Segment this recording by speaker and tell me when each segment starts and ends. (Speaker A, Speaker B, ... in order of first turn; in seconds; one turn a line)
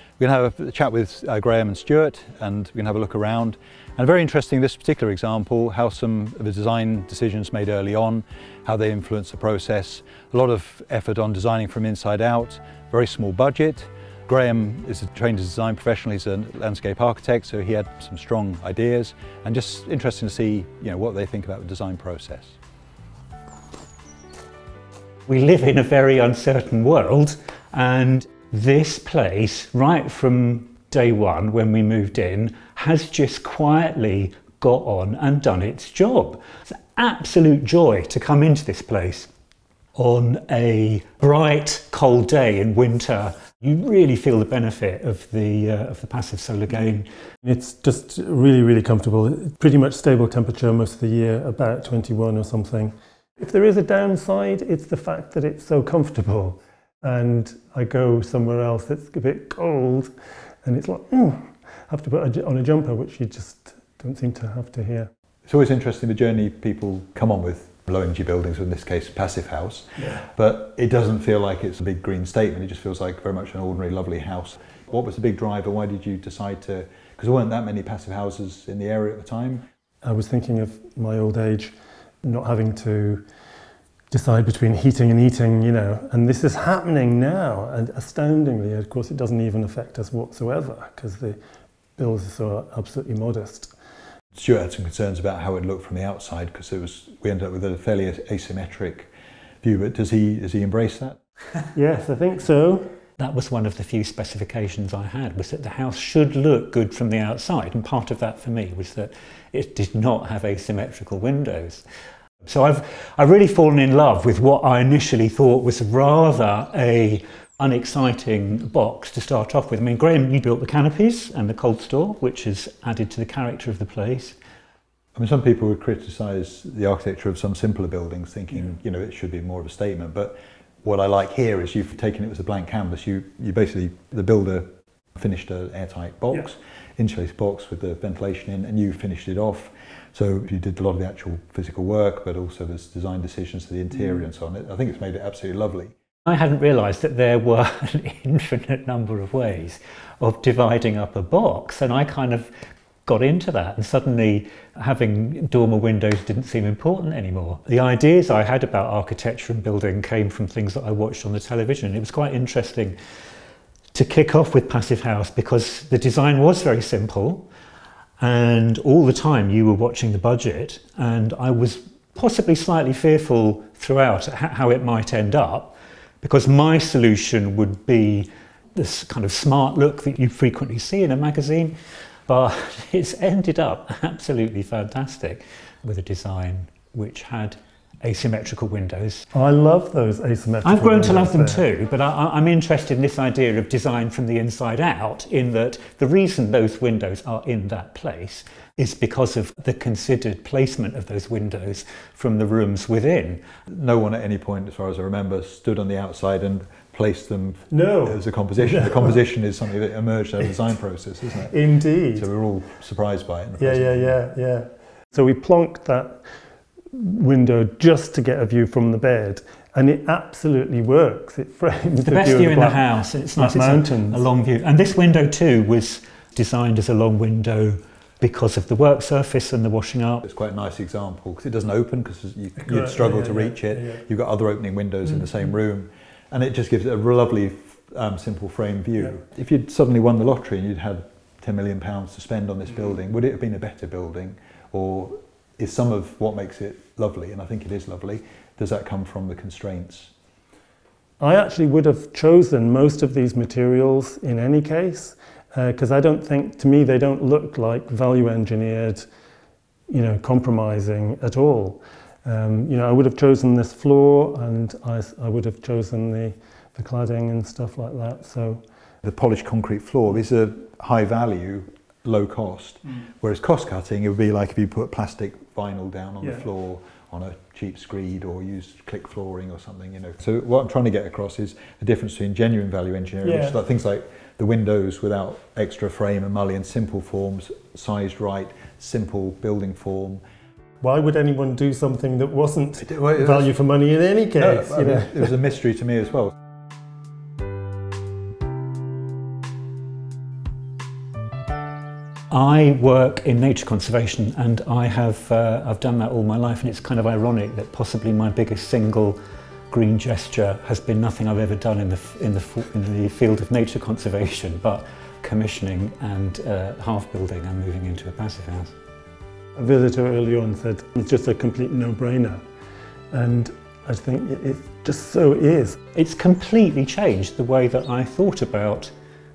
Speaker A: 0.2-22.6
Speaker B: 25.3-39.3
Speaker B: 39.9-47.1
Speaker C: 47.4-60.1
Speaker C: 60.6-65.1
Speaker A: 65.5-79.6
Speaker C: 80.0-83.2
Speaker C: 84.1-91.3
Speaker C: 92.0-93.7
Speaker A: 94.3-99.1
Speaker A: 99.6-101.2
Speaker C: 101.7-102.9
Speaker B: 103.2-111.8
Speaker B: 112.4-124.4
Speaker A: 125.1-145.9
Speaker B: 146.2-152.5
Speaker B: 153.0-162.9
Speaker B: 163.9-167.5
Speaker B: 168.2-181.8
Speaker B: 182.3-189.3
Speaker C: 189.3-191.6
Speaker B: 190.6-203.5
Speaker A: 203.7-211.5
Speaker C: 207.7-209.2
Speaker C: 211.4-212.3
Speaker A: 212.1-214.2
Speaker C: 213.6-216.2
Speaker C: 216.9-222.8
Speaker B: 222.0-230.2
Speaker C: 223.3-224.2
Speaker A: 230.2-250.1
Speaker C: 232.6-234.0
Speaker C: 251.2-259.1
Speaker C: 259.9-268.6
Speaker A: 269.0-290.2
Speaker C: 283.2-283.6
Speaker C: 290.8-295.3
Speaker A: 292.8-293.5
Speaker A: 294.4-296.3
Speaker B: 302.3-309.2
Speaker B: 309.7-318.7
Speaker C: 319.6-322.4
Speaker C: 323.1-325.8
Speaker B: 325.9-328.9